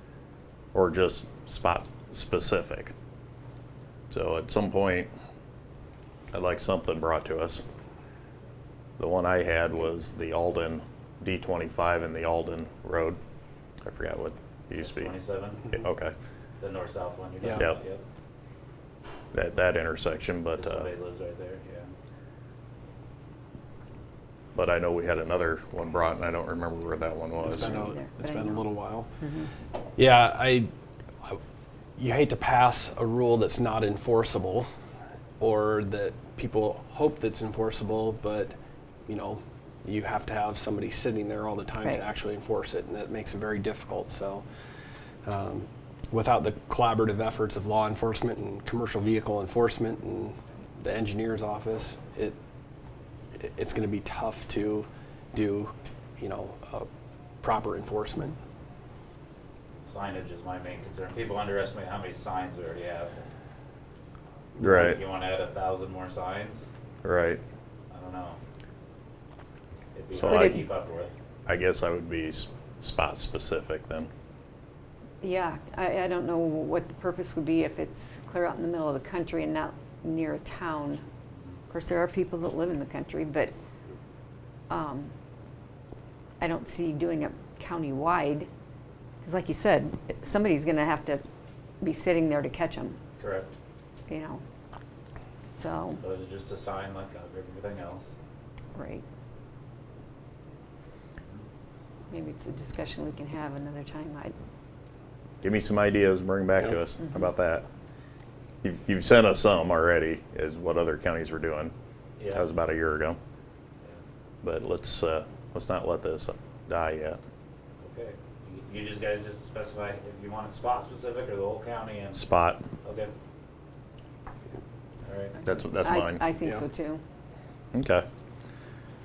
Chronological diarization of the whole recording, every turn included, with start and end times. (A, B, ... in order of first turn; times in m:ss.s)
0:00.7-0:02.9 A
0:04.1-0:05.1 A
0:06.3-0:07.6 A
0:09.0-0:13.2 A
0:13.8-0:15.1 A
0:14.8-0:15.8 B
0:15.7-0:16.2 A
0:16.6-0:18.0 B
0:17.5-0:17.8 A
0:19.3-0:20.9 A
0:20.6-0:21.9 B
0:24.6-0:27.9 A
0:27.4-0:29.1 C
0:27.7-0:28.7 D
0:29.2-0:29.5 D
0:30.0-0:30.7 C
0:32.0-0:34.7 C
0:35.4-0:38.6 C
0:39.1-0:44.4 C
0:45.2-0:52.4 C
0:53.4-0:56.9 C
0:57.4-0:58.4 C
0:59.8-1:03.2 B
1:04.6-1:05.0 A
1:04.6-1:06.7 B
1:07.0-1:07.4 A
1:07.9-1:08.4 B
1:09.9-1:11.1 B
1:10.1-1:10.6 A
1:10.3-1:10.6 D
1:11.5-1:14.1 A
1:15.2-1:21.0 D
1:21.7-1:23.5 D
1:24.7-1:25.1 D
1:26.4-1:28.5 D
1:29.2-1:31.2 D
1:31.8-1:33.0 D
1:33.2-1:33.5 B
1:34.1-1:34.4 D
1:35.5-1:36.0 D
1:36.0-1:38.1 B
1:38.8-1:39.0 D
1:42.1-1:44.4 D
1:45.4-1:47.7 A
1:48.6-1:51.7 A
1:52.2-1:52.5 B
1:52.3-1:53.2 A
1:54.4-1:57.2 A
1:57.8-2:02.2 B
2:02.1-2:02.6 A
2:02.8-2:03.1 B
2:05.0-2:05.4 B
2:05.4-2:06.2 A
2:05.8-2:07.0 D
2:07.7-2:08.1 A